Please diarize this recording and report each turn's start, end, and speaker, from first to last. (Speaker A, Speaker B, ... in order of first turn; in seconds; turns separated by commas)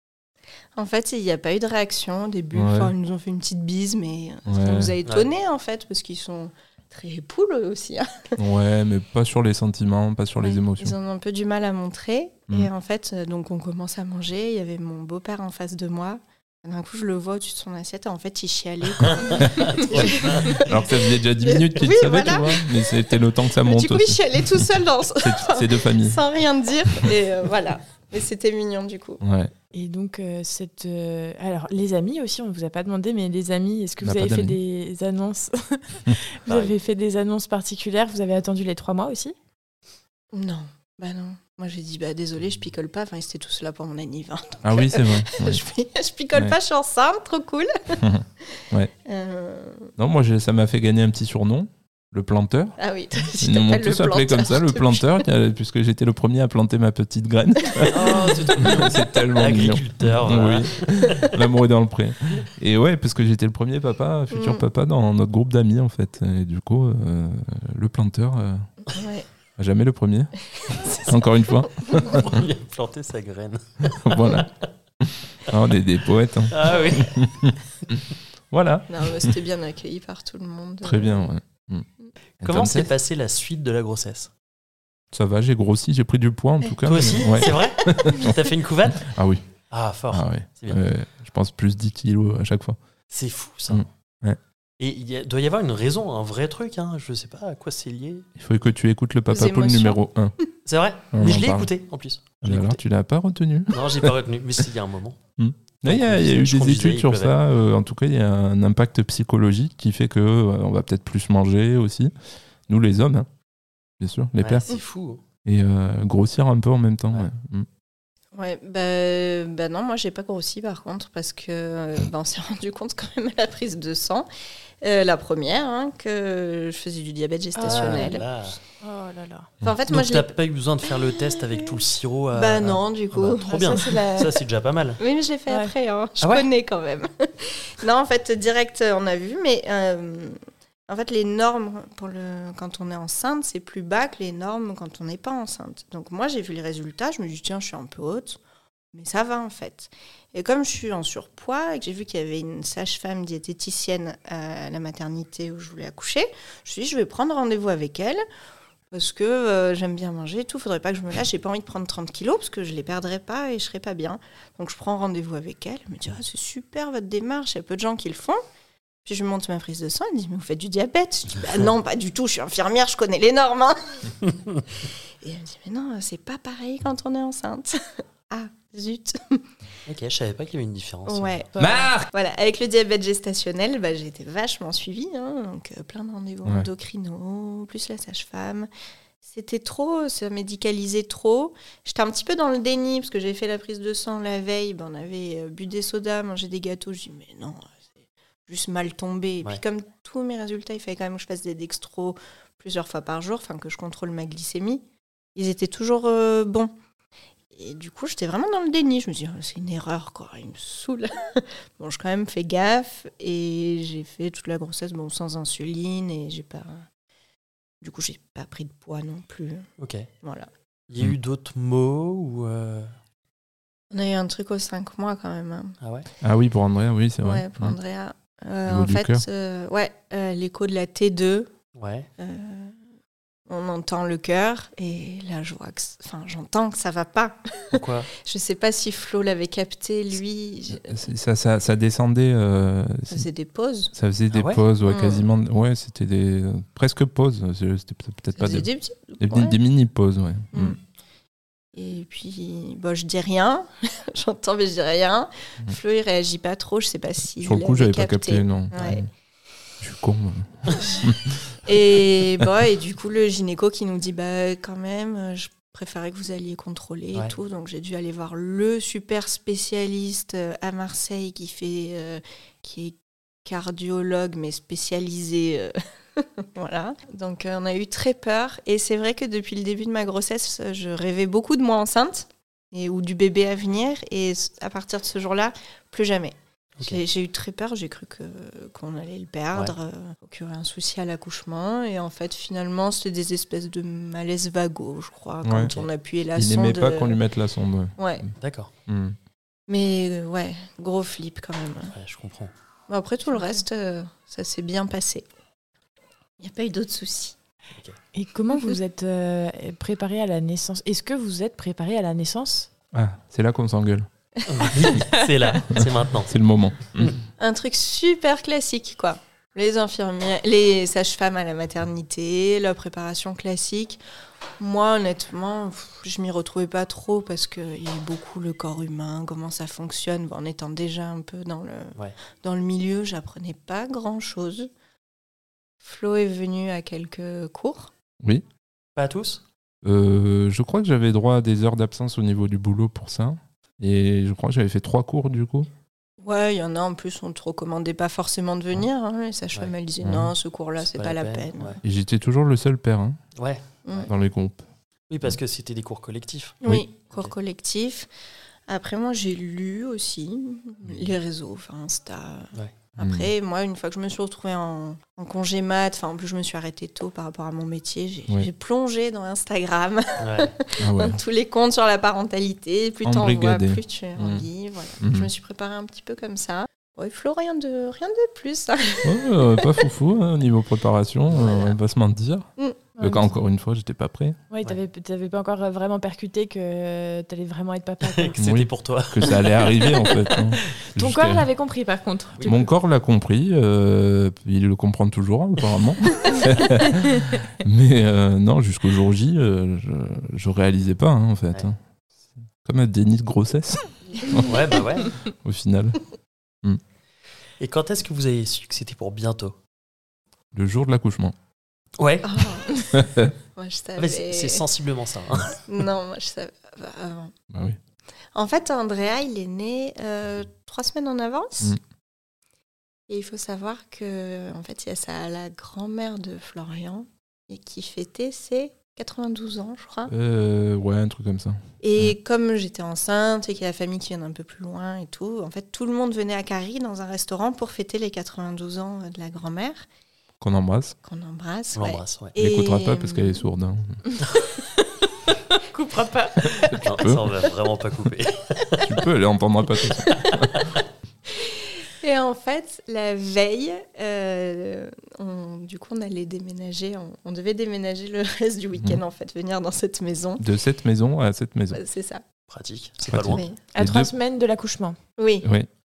Speaker A: 0.7-8.4, Speaker B: 2.5-2.9, Speaker B: 4.5-4.9, Speaker B: 8.4-11.0, Speaker A: 10.4-29.2, Speaker C: 19.0-20.6, Speaker B: 19.4-26.2, Speaker B: 29.2-29.5, Speaker D: 29.7-39.4, Speaker B: 34.0-34.6, Speaker C: 36.5-36.7, Speaker A: 40.3-48.0, Speaker B: 44.6-45.6, Speaker B: 48.0-48.9, Speaker A: 49.0-49.9, Speaker B: 50.0-52.8, Speaker A: 52.8-55.2, Speaker B: 53.4-68.7, Speaker A: 57.7-58.8, Speaker C: 57.9-61.4, Speaker A: 64.3-64.6, Speaker A: 68.9-69.3, Speaker B: 69.6-70.3, Speaker A: 70.6-72.1, Speaker B: 70.9-72.4, Speaker C: 71.9-74.5, Speaker B: 73.9-74.5, Speaker B: 75.0-78.0, Speaker C: 76.5-77.2, Speaker B: 78.5-79.3, Speaker A: 78.9-81.3, Speaker B: 80.8-81.8, Speaker B: 82.4-82.9, Speaker C: 82.4-84.3, Speaker B: 85.1-88.4, Speaker C: 86.8-89.1, Speaker A: 87.2-88.1, Speaker B: 88.9-89.4, Speaker C: 89.7-90.8, Speaker B: 90.1-92.8, Speaker C: 93.1-93.8, Speaker B: 93.7-94.4, Speaker C: 94.8-98.3, Speaker B: 98.4-100.3, Speaker A: 99.3-100.0, Speaker C: 100.7-102.8, Speaker B: 101.1-101.7, Speaker B: 102.4-104.1, Speaker C: 103.7-105.2, Speaker B: 105.4-112.1, Speaker C: 105.8-107.3, Speaker B: 112.7-113.3, Speaker B: 114.0-114.7, Speaker C: 114.4-115.2, Speaker B: 115.4-117.7, Speaker A: 118.3-124.3, Speaker A: 124.8-128.3, Speaker D: 127.5-128.2, Speaker C: 127.6-128.6, Speaker D: 128.8-129.5, Speaker A: 129.6-130.3, Speaker C: 129.9-135.0, Speaker A: 130.8-131.8, Speaker A: 132.3-133.9, Speaker D: 133.5-134.4, Speaker A: 135.0-148.4, Speaker C: 136.2-136.5, Speaker A: 148.9-158.2, Speaker A: 158.9-168.4, Speaker A: 169.0-174.3, Speaker A: 175.2-179.4, Speaker C: 179.9-181.4, Speaker A: 181.1-188.7, Speaker B: 181.6-182.1, Speaker D: 181.6-181.8, Speaker A: 189.2-197.7, Speaker A: 198.5-204.8, Speaker A: 205.3-206.7, Speaker A: 207.5-216.8, Speaker A: 217.8-219.7, Speaker C: 219.8-220.1, Speaker A: 220.2-220.5, Speaker C: 220.9-222.9, Speaker A: 223.9-225.8, Speaker C: 225.8-226.1, Speaker B: 226.2-227.8, Speaker A: 227.2-231.5, Speaker B: 228.7-229.2, Speaker C: 231.8-232.1, Speaker A: 232.2-232.8, Speaker A: 233.5-241.0, Speaker C: 237.7-238.1, Speaker B: 240.7-243.3, Speaker A: 243.1-243.9, Speaker B: 243.9-248.7, Speaker C: 244.3-244.6, Speaker A: 244.8-245.2, Speaker A: 248.4-249.6, Speaker B: 249.2-250.8, Speaker A: 250.5-250.8, Speaker A: 251.7-259.1, Speaker B: 257.4-259.1, Speaker B: 259.8-261.4, Speaker A: 261.6-297.2, Speaker B: 295.4-295.7, Speaker B: 296.3-298.3, Speaker A: 298.0-298.2, Speaker C: 298.4-298.7, Speaker B: 298.9-299.1, Speaker A: 299.7-301.9, Speaker C: 301.9-302.5, Speaker A: 302.9-305.2, Speaker A: 306.4-307.4, Speaker D: 308.1-312.7, Speaker A: 308.5-308.8, Speaker B: 312.9-314.1, Speaker C: 314.4-316.3, Speaker D: 314.8-315.4, Speaker B: 315.7-317.2, Speaker A: 317.4-324.0, Speaker A: 324.6-334.7, Speaker A: 335.8-337.9, Speaker C: 338.9-339.4, Speaker B: 339.8-345.7, Speaker A: 346.2-351.8, Speaker B: 350.0-350.3, Speaker C: 350.8-351.8, Speaker B: 351.8-353.2, Speaker C: 353.4-354.1, Speaker A: 353.9-354.1, Speaker B: 354.1-354.6, Speaker C: 355.1-356.6, Speaker A: 356.6-358.1, Speaker A: 358.7-379.9, Speaker B: 363.0-363.3, Speaker C: 370.2-370.5, Speaker B: 370.8-371.2, Speaker B: 373.0-374.5, Speaker B: 375.0-375.3, Speaker B: 379.0-382.5, Speaker C: 381.3-381.7, Speaker D: 383.0-383.3, Speaker B: 383.0-384.4, Speaker D: 384.5-388.4, Speaker C: 388.0-390.3, Speaker B: 388.4-391.5, Speaker D: 390.9-392.6, Speaker C: 392.4-392.6, Speaker B: 392.4-401.8, Speaker B: 402.6-404.5, Speaker C: 404.4-405.1, Speaker B: 405.2-406.0, Speaker C: 407.6-409.5, Speaker B: 410.5-411.3, Speaker C: 412.0-412.5, Speaker A: 412.2-414.6, Speaker B: 412.9-413.3, Speaker C: 414.0-415.6, Speaker A: 415.6-417.3, Speaker B: 417.5-417.8, Speaker A: 418.3-421.8, Speaker A: 423.1-430.1, Speaker B: 430.1-432.1, Speaker A: 431.8-439.9, Speaker B: 440.4-440.9, Speaker A: 441.0-443.4, Speaker C: 441.7-442.3, Speaker B: 442.4-444.0, Speaker D: 445.5-446.8, Speaker B: 446.6-447.3, Speaker C: 446.8-448.9, Speaker B: 448.8-450.6, Speaker C: 450.3-450.6, Speaker A: 451.3-460.5, Speaker B: 460.4-461.8, Speaker A: 461.7-462.2, Speaker C: 462.5-463.4, Speaker B: 463.1-464.1, Speaker A: 463.1-463.6, Speaker D: 463.7-465.0, Speaker A: 465.2-465.5, Speaker B: 465.4-465.7